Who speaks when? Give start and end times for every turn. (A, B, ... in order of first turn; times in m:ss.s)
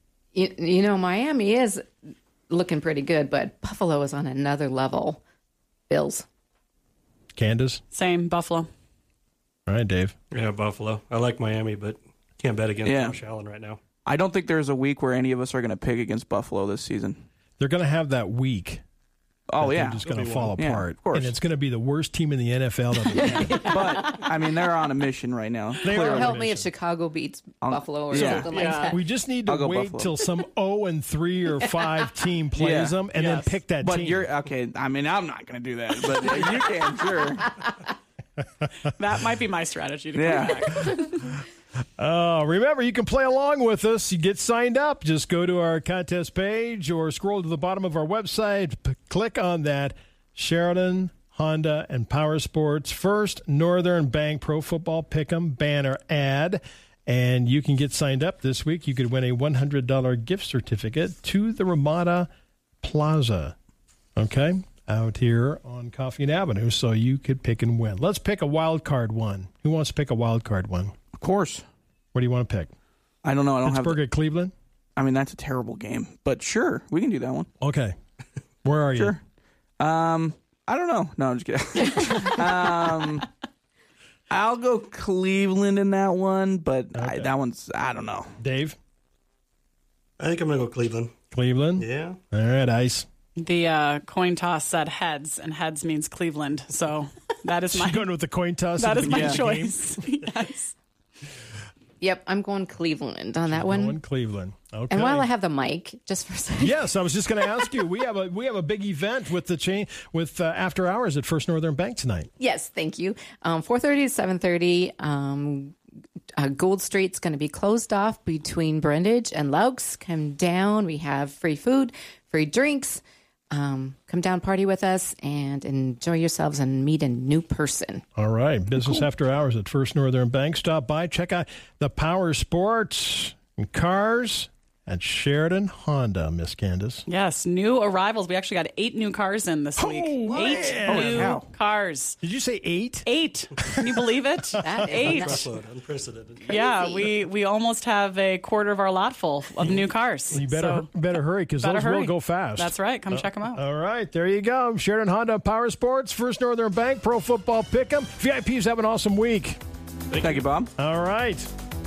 0:00.3-0:01.8 A
0:02.5-0:05.2 A
0:05.9-0:06.2 A
0:07.4-0:07.8 B
0:07.9-0:08.7 C
0:09.7-0:10.1 B
0:10.3-0:13.8 D
0:12.8-0:13.2 E
0:14.0-0:17.2 E
0:17.6-0:18.8 B
0:19.5-0:20.0 E
0:19.6-0:23.8 B
0:20.0-0:20.6 D
0:20.6-0:21.4 E
0:23.1-0:24.2 A
0:23.6-0:26.3 E
0:25.8-0:29.0 A
0:25.8-0:26.7 B
0:27.6-0:28.5 E
0:28.1-0:29.0 C
0:28.8-0:34.3 B
0:29.4-0:30.1 E
0:31.6-0:32.0 A
0:32.6-0:33.0 E
0:33.1-0:33.6 C
0:33.8-0:37.6 E
0:38.8-0:41.3 C
0:40.1-0:40.7 E
0:42.0-1:02.3 B
1:02.8-1:03.5 B
1:04.2-1:10.9 B
1:11.1-1:11.6 E
1:12.1-1:12.7 B
1:13.2-1:14.0 E
1:13.6-1:14.5 B
1:15.0-1:17.5 E
1:17.6-1:17.9 B
1:18.6-1:19.2 B
1:19.8-1:23.3 E
1:24.3-1:28.3 E
1:26.9-1:27.3 B
1:28.4-1:28.8 B
1:30.2-1:31.1 D
1:31.3-1:33.1 B
1:31.8-1:32.2 D
1:33.4-1:38.1 C
1:37.7-1:40.0 B
1:38.8-1:40.8 C
1:39.0-1:39.4 E
1:42.0-1:44.0 A
1:43.5-1:45.3 B
1:44.9-1:46.9 A
1:46.6-1:52.3 B
1:52.4-1:55.8 A
1:56.4-2:03.0 A
2:03.5-2:08.0 A
2:08.2-2:17.0 B
2:08.8-2:09.0 E
2:17.1-2:22.2 C
2:19.8-2:21.5 E
2:19.8-2:21.4 B
2:22.2-2:23.1 B
2:23.0-2:25.5 C
2:23.6-2:24.8 B
2:24.6-2:25.5 A
2:24.9-2:26.6 D
2:26.4-2:30.9 C
2:26.5-2:27.1 A
2:30.3-2:39.6 B
2:31.6-2:33.6 C
2:40.2-2:40.7 E
2:40.8-2:41.5 B